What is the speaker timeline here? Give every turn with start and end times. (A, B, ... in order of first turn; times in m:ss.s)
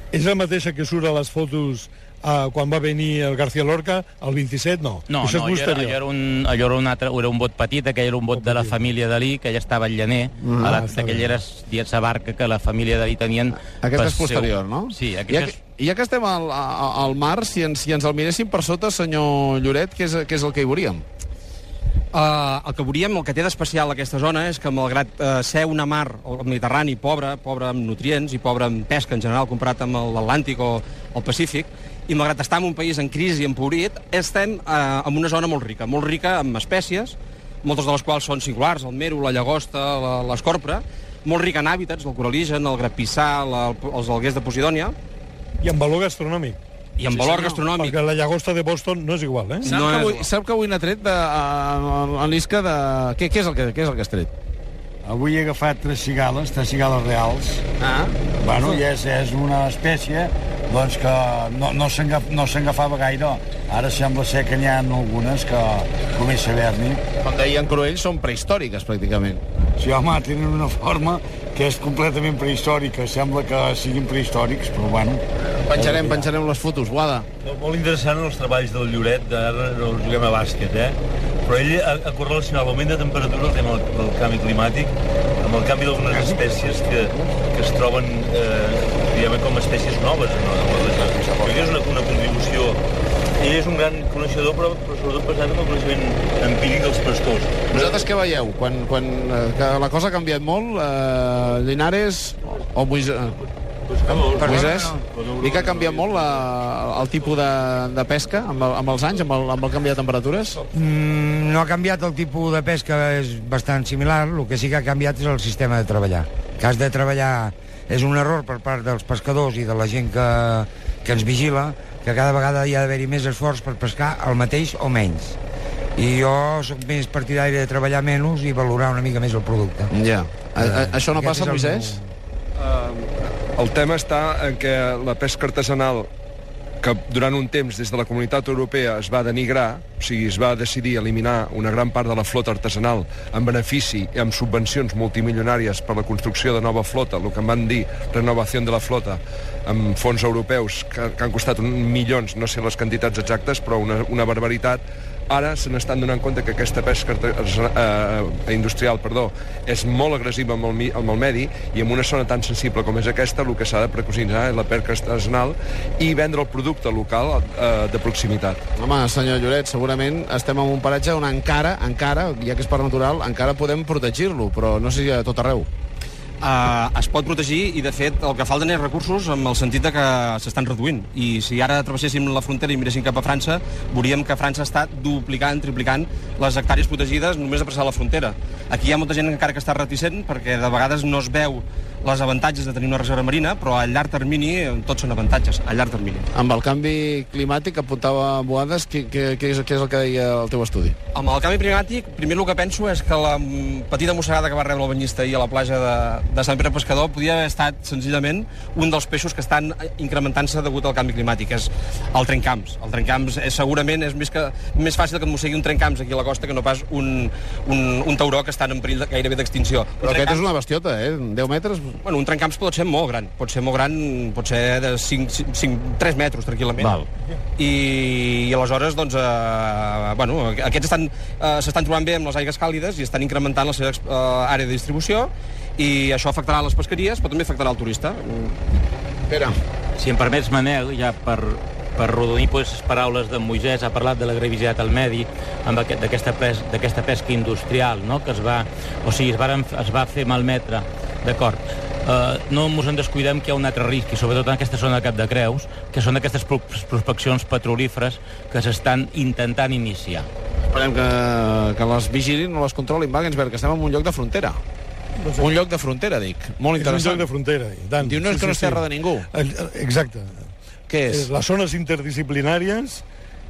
0:00.1-0:06.0 A
0:05.1-0:15.6 B
0:08.3-0:08.8 A
0:10.4-0:10.8 C
0:10.6-0:11.3 A
0:13.8-0:21.0 C
0:22.1-0:45.0 D
0:45.6-0:46.6 A
0:47.0-0:47.9 D
0:47.1-0:47.6 C
0:47.8-0:49.7 A
0:49.6-0:54.3 C
0:49.7-0:50.2 D
0:55.0-0:57.6 E
0:57.8-0:58.1 C
0:58.4-1:07.0 E
1:07.2-1:09.4 C
1:09.8-1:15.2 E
1:15.6-1:17.3 C
1:15.9-1:16.2 E
1:17.5-1:32.8 F
1:26.2-1:26.7 E
1:33.4-1:37.8 F
1:37.7-1:43.4 C
1:44.1-1:50.6 C
1:44.3-1:45.0 G
1:50.7-2:05.4 G
2:06.0-2:09.9 G
2:09.9-2:12.0 C
2:10.6-2:12.1 G
2:13.6-2:16.1 H
2:16.8-2:48.6 H
2:48.8-2:55.7 C
2:56.4-3:16.2 D
3:16.3-3:21.0 C
3:21.1-3:40.4 D
3:40.0-3:42.0 C
3:42.0-3:47.0 D
3:46.8-3:47.0 C
3:47.6-3:58.6 D
4:00.0-4:20.3 B
4:20.7-4:24.6 C
4:25.2-4:25.5 A
4:25.4-4:27.3 C
4:26.8-4:30.5 A
4:28.0-4:29.3 C
4:30.9-4:31.3 C
4:31.1-4:33.0 A